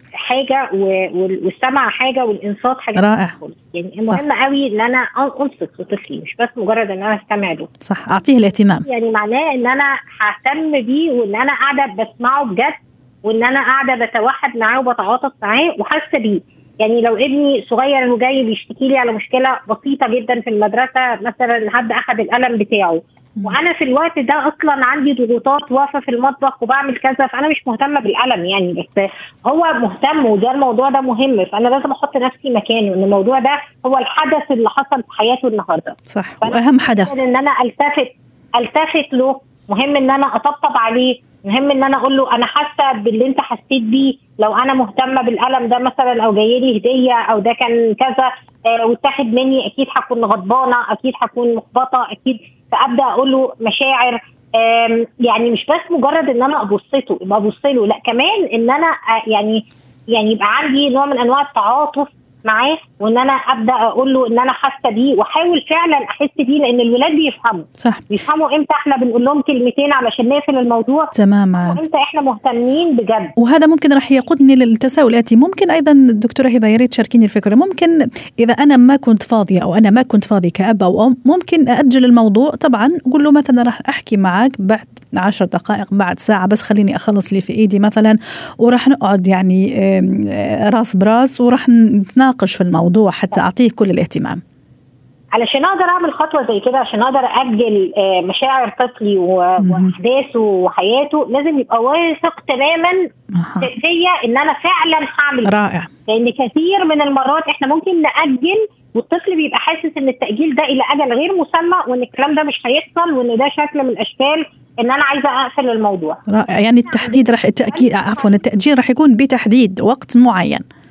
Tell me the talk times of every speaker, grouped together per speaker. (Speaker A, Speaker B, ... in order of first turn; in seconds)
Speaker A: 0.2-7.7, 8.8-73.3, 95.3-103.0, 103.6-105.5, 106.1-116.2, 116.8-118.4
Speaker B: 2.9-3.3, 7.8-8.8, 36.1-37.2, 67.8-68.0, 71.1-71.8, 73.4-94.4, 99.6-99.9, 103.3-103.7, 105.4-105.9, 116.3-120.6